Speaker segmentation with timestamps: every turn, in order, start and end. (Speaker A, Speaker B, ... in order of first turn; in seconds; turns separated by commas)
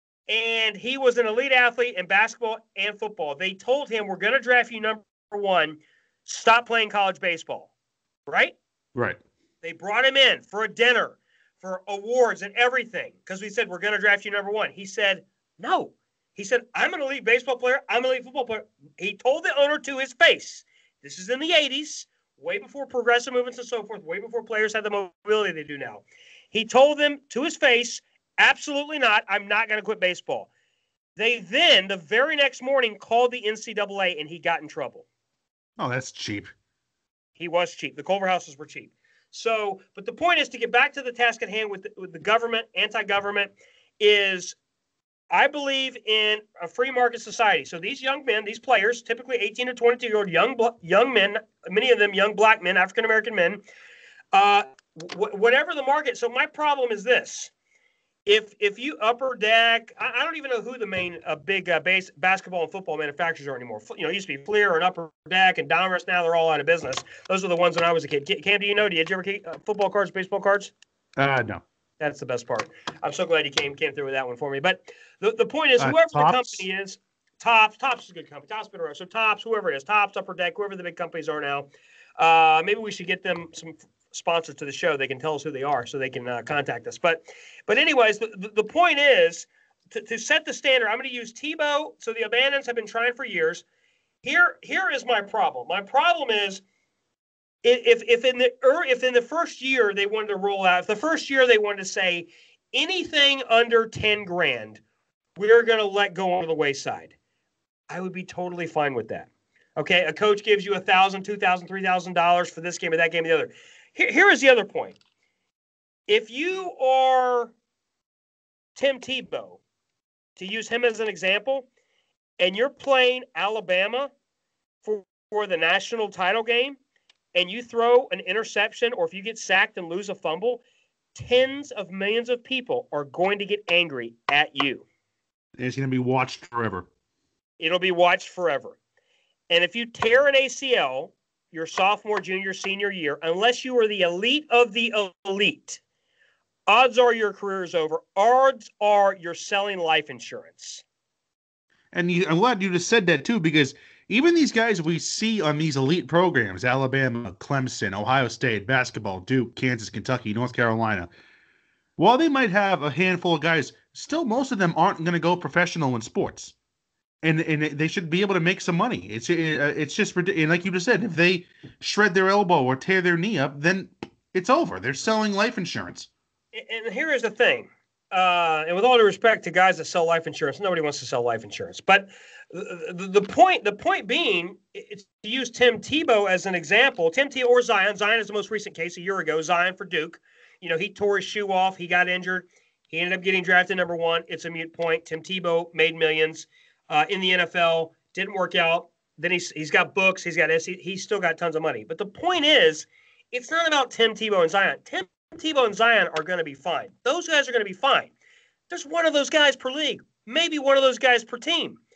Speaker A: 0.3-7.7, Speaker A: 8.3-8.6, Speaker A: 9.6-30.5, Speaker A: 31.1-35.0, Speaker B: 35.8-36.5, Speaker A: 37.4-44.6, Speaker A: 45.3-53.6, Speaker A: 54.3-57.5, Speaker A: 58.2-70.7, Speaker B: 71.2-71.6, Speaker A: 72.0-93.6, Speaker B: 75.8-76.6, Speaker A: 94.2-96.6, Speaker A: 97.6-104.8, Speaker A: 105.3-107.1, Speaker A: 107.9-115.0, Speaker A: 116.1-117.5, Speaker A: 118.7-119.6, Speaker A: 120.4-121.7, Speaker A: 122.4-124.1, Speaker A: 124.8-126.8, Speaker A: 127.3-130.6, Speaker A: 131.1-134.8, Speaker B: 135.6-136.9, Speaker A: 137.6-138.8, Speaker A: 139.5-145.8, Speaker A: 146.7-150.8, Speaker B: 151.9-161.1, Speaker B: 162.0-166.5, Speaker B: 167.2-176.1, Speaker A: 176.5-208.1, Speaker A: 208.7-211.8